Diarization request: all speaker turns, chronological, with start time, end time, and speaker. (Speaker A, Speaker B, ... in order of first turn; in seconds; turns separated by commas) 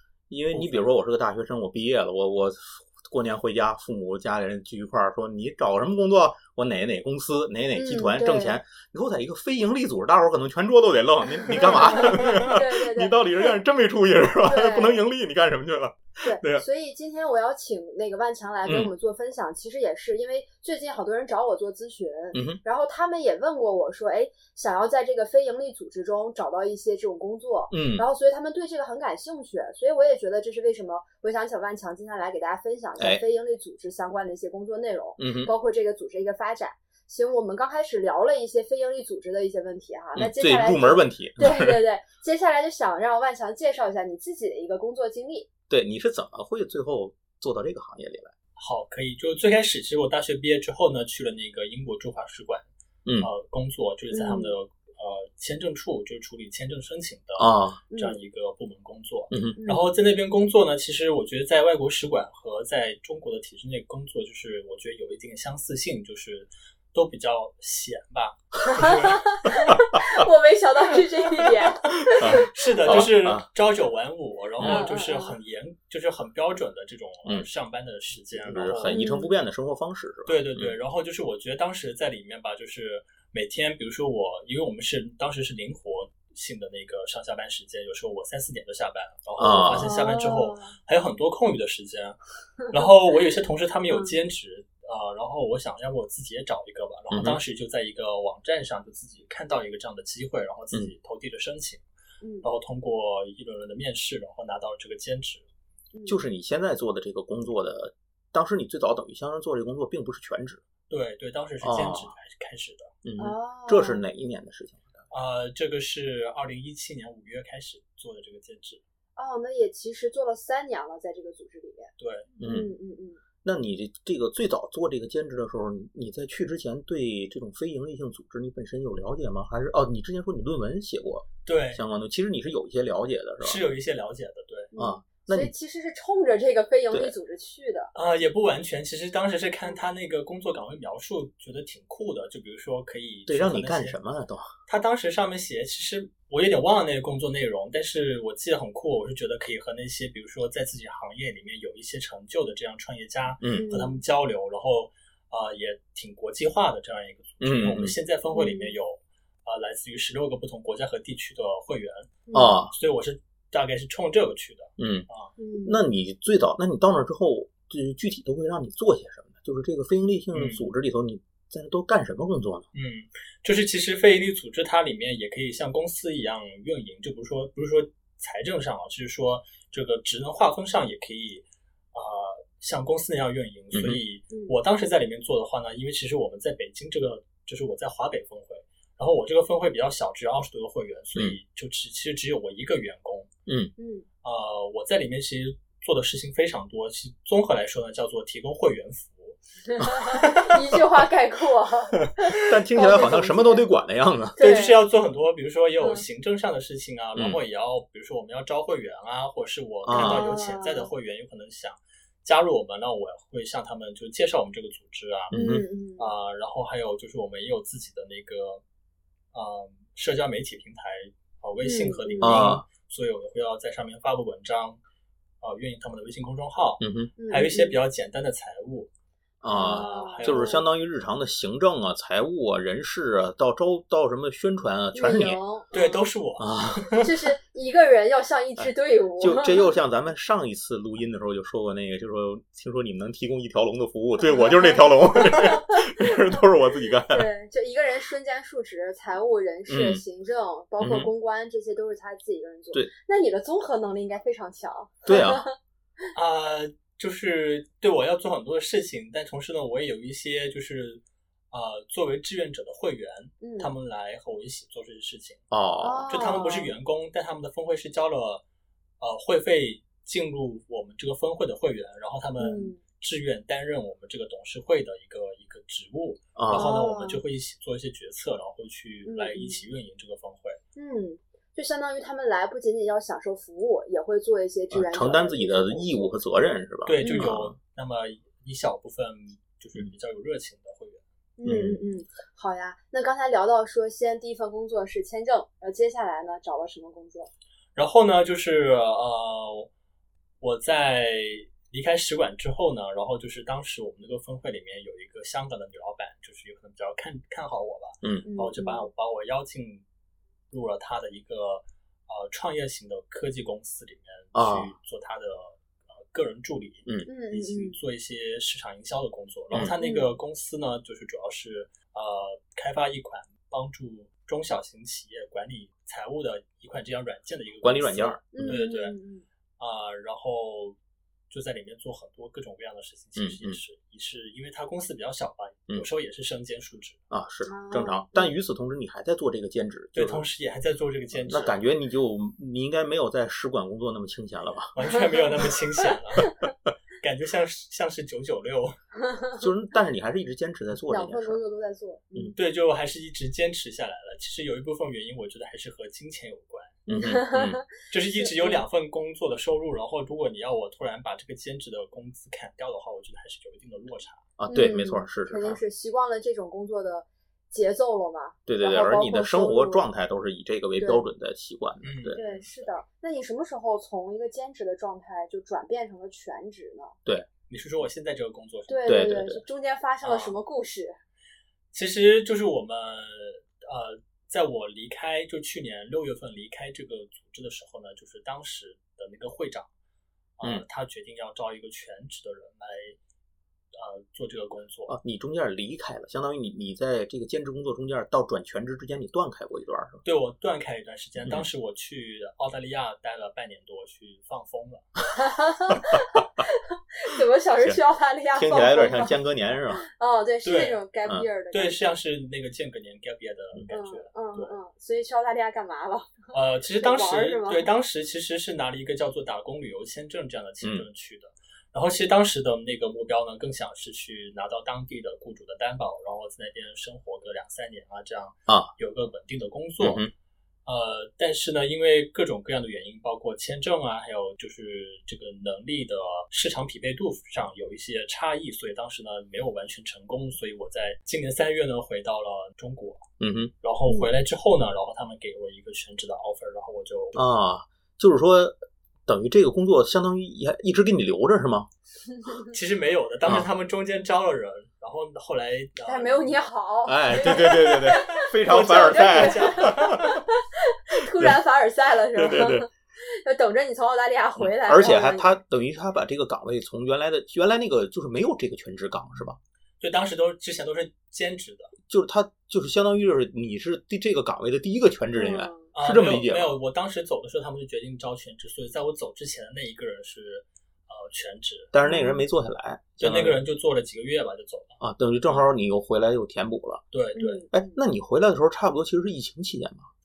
Speaker A: 0.3-16.6, Speaker B: 0.5-0.9, Speaker C: 7.7-8.6, Speaker C: 11.5-13.5, Speaker C: 14.4-15.1, Speaker C: 16.2-45.5, Speaker A: 18.6-18.9, Speaker A: 22.3-22.6, Speaker A: 27.7-28.1, Speaker A: 35.2-35.5, Speaker A: 40.2-41.8, Speaker A: 45.7-48.3, Speaker B: 48.6-52.7, Speaker B: 53.2-69.5, Speaker C: 54.1-54.5, Speaker A: 57.4-57.8, Speaker C: 57.9-58.2, Speaker A: 59.3-59.6, Speaker C: 59.6-59.9, Speaker C: 68.6-72.5, Speaker A: 72.2-73.5, Speaker B: 72.2-79.0, Speaker A: 74.6-74.9, Speaker C: 74.6-75.4, Speaker A: 78.3-80.8, Speaker C: 78.9-79.3, Speaker B: 80.3-101.8, Speaker A: 89.4-89.9, Speaker C: 89.8-90.8, Speaker C: 93.9-94.2, Speaker A: 97.1-97.4, Speaker C: 102.2-102.5, Speaker B: 102.4-105.5, Speaker C: 105.9-106.2, Speaker A: 106.1-110.6, Speaker B: 110.9-112.9, Speaker A: 111.6-112.1, Speaker A: 113.0-115.0, Speaker C: 113.2-114.0, Speaker B: 115.1-118.8, Speaker C: 119.2-121.9, Speaker B: 122.0-122.3, Speaker A: 122.4-122.7, Speaker C: 122.4-123.2, Speaker A: 123.4-133.6, Speaker B: 131.4-131.8, Speaker B: 133.4-134.7, Speaker C: 134.7-137.9, Speaker A: 134.8-135.5, Speaker B: 137.9-143.9, Speaker A: 143.3-144.5, Speaker B: 144.7-162.2, Speaker A: 153.4-153.7, Speaker C: 153.6-154.0, Speaker A: 157.4-157.9, Speaker C: 158.3-158.8, Speaker C: 162.3-162.6, Speaker A: 162.3-162.7, Speaker B: 162.7-165.3, Speaker A: 164.8-165.1, Speaker C: 165.4-165.8, Speaker A: 165.7-172.7, Speaker B: 170.3-170.7, Speaker B: 172.7-193.3, Speaker A: 183.7-184.0, Speaker A: 193.5-193.7, Speaker C: 193.8-194.1, Speaker B: 194.2-200.6, Speaker C: 199.7-203.7, Speaker A: 202.4-204.4, Speaker C: 204.4-204.8, Speaker B: 204.4-215.4, Speaker A: 207.2-207.4, Speaker A: 209.9-210.3, Speaker C: 209.9-210.9, Speaker A: 215.3-215.6, Speaker C: 215.3-216.1, Speaker B: 216.0-218.6, Speaker B: 219.3-224.8, Speaker C: 221.6-222.6, Speaker A: 222.2-222.7, Speaker B: 225.4-228.9, Speaker A: 226.8-227.1, Speaker C: 227.2-227.8, Speaker A: 229.4-235.4, Speaker C: 229.5-230.6, Speaker B: 229.5-230.6, Speaker C: 234.9-236.0, Speaker B: 235.7-237.1, Speaker A: 236.4-237.1, Speaker C: 237.0-239.7, Speaker A: 238.6-247.3, Speaker C: 244.3-246.2, Speaker C: 247.1-255.6, Speaker A: 249.7-250.0, Speaker A: 250.8-251.1, Speaker A: 255.1-255.4, Speaker B: 256.1-265.4, Speaker C: 263.4-263.7, Speaker A: 265.5-266.1, Speaker C: 265.8-266.7, Speaker B: 266.1-268.4, Speaker B: 269.0-280.6, Speaker C: 272.4-272.8, Speaker A: 276.4-276.7, Speaker C: 276.5-277.2, Speaker C: 279.1-279.6, Speaker C: 280.8-286.1, Speaker A: 284.7-287.6, Speaker B: 286.9-291.0, Speaker C: 287.0-287.3, Speaker C: 291.4-297.3, Speaker A: 291.4-291.8, Speaker B: 297.8-299.7, Speaker B: 300.4-309.8, Speaker C: 308.3-308.9, Speaker B: 310.5-328.9, Speaker A: 314.3-314.8, Speaker C: 317.1-317.8, Speaker C: 319.8-320.1, Speaker A: 327.6-328.6, Speaker C: 328.3-329.2, Speaker B: 329.6-330.8, Speaker B: 331.3-337.0, Speaker A: 333.2-333.6, Speaker A: 337.1-340.3, Speaker C: 337.5-338.4, Speaker B: 339.9-341.6, Speaker A: 341.1-344.7, Speaker B: 344.7-346.4, Speaker B: 347.0-348.8, Speaker A: 349.4-351.4, Speaker C: 350.9-352.4, Speaker B: 352.4-356.8, Speaker A: 356.9-357.6, Speaker C: 356.9-358.6, Speaker B: 357.8-364.3, Speaker A: 364.4-365.6, Speaker C: 364.5-369.8, Speaker A: 368.5-372.2, Speaker C: 370.8-371.0, Speaker B: 371.8-372.7, Speaker C: 372.1-376.9, Speaker B: 377.5-379.1, Speaker C: 378.7-381.0, Speaker A: 378.9-379.4, Speaker B: 380.0-380.4, Speaker B: 381.7-389.7, Speaker B: 390.4-393.0, Speaker B: 393.7-394.9, Speaker A: 394.9-400.0, Speaker B: 400.0-404.9, Speaker A: 401.2-401.5, Speaker C: 405.1-409.2, Speaker A: 408.3-409.9, Speaker C: 409.8-411.9, Speaker B: 410.4-410.8, Speaker B: 411.5-414.5, Speaker C: 413.7-417.7, Speaker B: 416.3-430.1, Speaker A: 429.8-430.1, Speaker B: 430.7-443.1, Speaker A: 443.2-443.5, Speaker B: 443.6-447.2, Speaker A: 447.2-448.6, Speaker A: 449.1-451.7, Speaker C: 452.2-452.5, Speaker B: 452.5-456.3, Speaker C: 455.9-465.4, Speaker A: 456.9-460.2, Speaker B: 457.3-460.1, Speaker A: 462.1-462.7, Speaker A: 464.4-469.4, Speaker B: 469.8-471.7, Speaker A: 471.9-476.6, Speaker C: 475.1-475.7, Speaker B: 475.7-481.7, Speaker A: 481.7-483.4, Speaker C: 481.8-482.2, Speaker B: 483.0-485.4, Speaker A: 484.8-486.8, Speaker B: 486.9-487.4, Speaker C: 487.1-487.8, Speaker A: 487.5-489.9